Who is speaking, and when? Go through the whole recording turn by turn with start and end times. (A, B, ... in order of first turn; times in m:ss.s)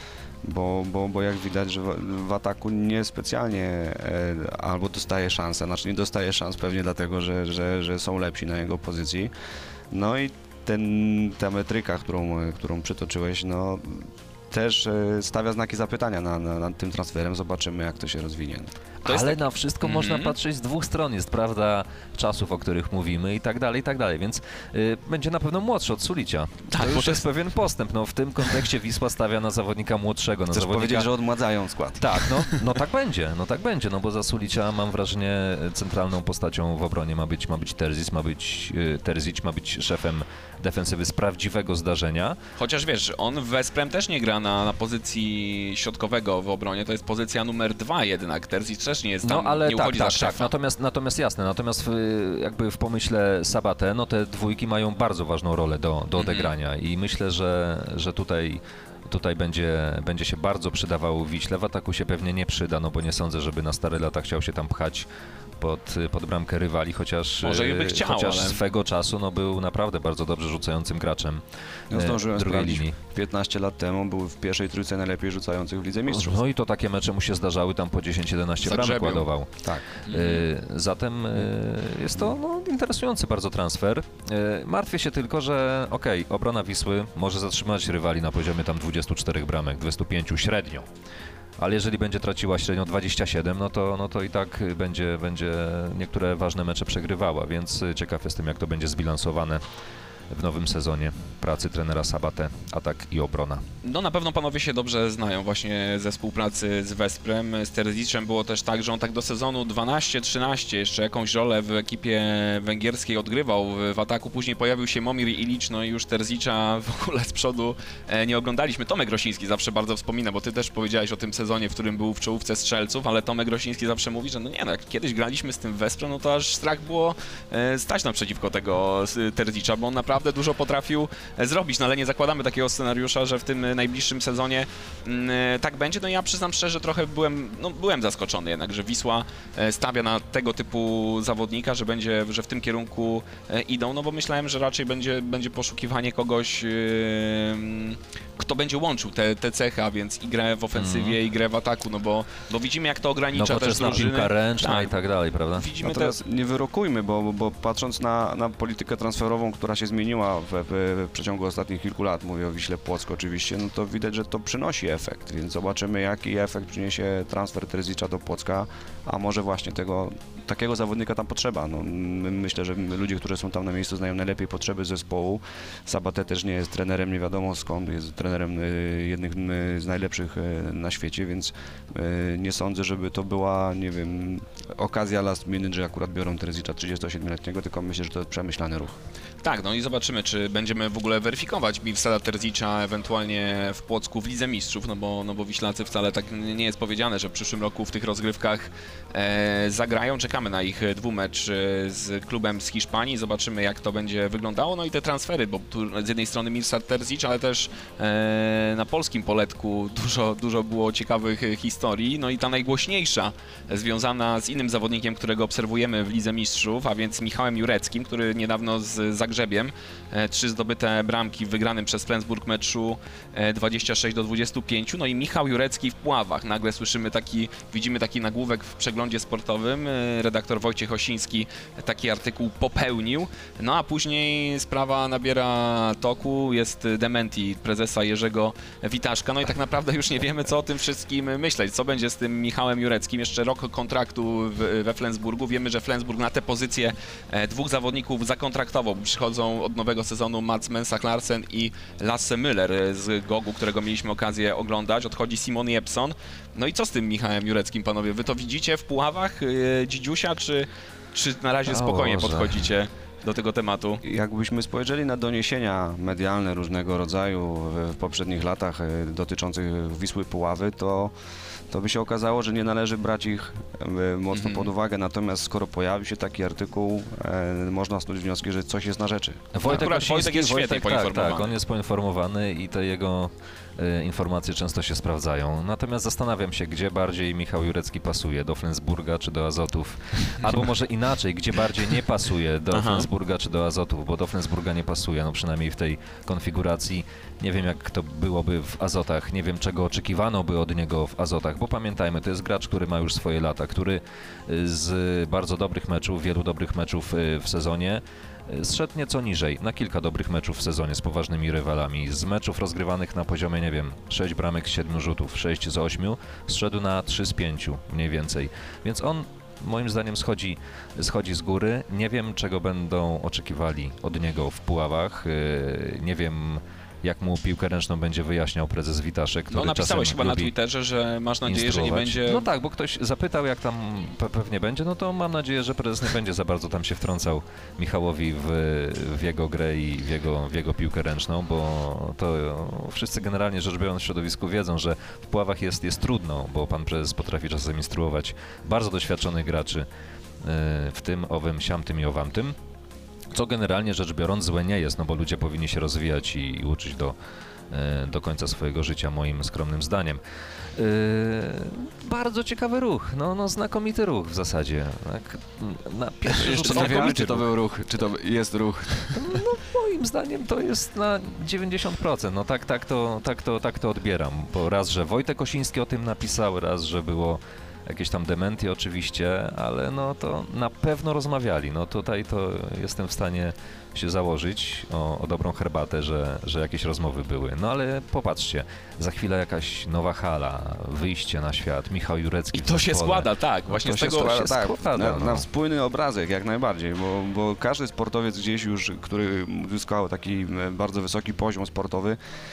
0:00.4-0:09.3 A
0:09.9-0:18.7 A
0:19.0-0:20.4 B
0:19.0-0:31.1 C
0:26.7-0:27.2 B
0:30.5-0:32.2 A
0:32.0-0:42.4 C
0:42.6-0:50.5 B
0:49.2-1:05.1 C
0:56.2-0:56.5 B
1:05.6-1:12.9 C
1:07.4-1:08.6 B
1:11.9-1:16.4 A
1:16.1-1:30.9 C
1:18.6-1:19.3 B
1:20.0-1:20.4 B
1:31.6-1:39.6 C
1:40.3-1:43.6 C
1:43.8-2:34.9 B
2:30.8-2:31.2 C
2:33.4-2:35.7 C
2:35.6-2:36.2 B
2:35.8-3:09.0 A
3:09.4-4:24.0 B
4:21.7-4:22.7 C
4:24.0-4:31.1 A
4:31.7-4:39.5 A
4:34.3-4:34.7 B
4:39.5-5:30.5 C
4:39.6-4:41.5 B
4:52.7-4:53.1 B
5:29.5-5:32.4 B
5:31.4-5:49.9 C
5:50.4-5:52.6 C
5:53.3-5:57.1 C
5:57.7-6:00.2 C
6:00.8-6:07.5 C
6:06.3-6:09.4 A
6:09.1-6:35.4 C
6:32.5-6:34.4 B
6:33.8-6:42.2 A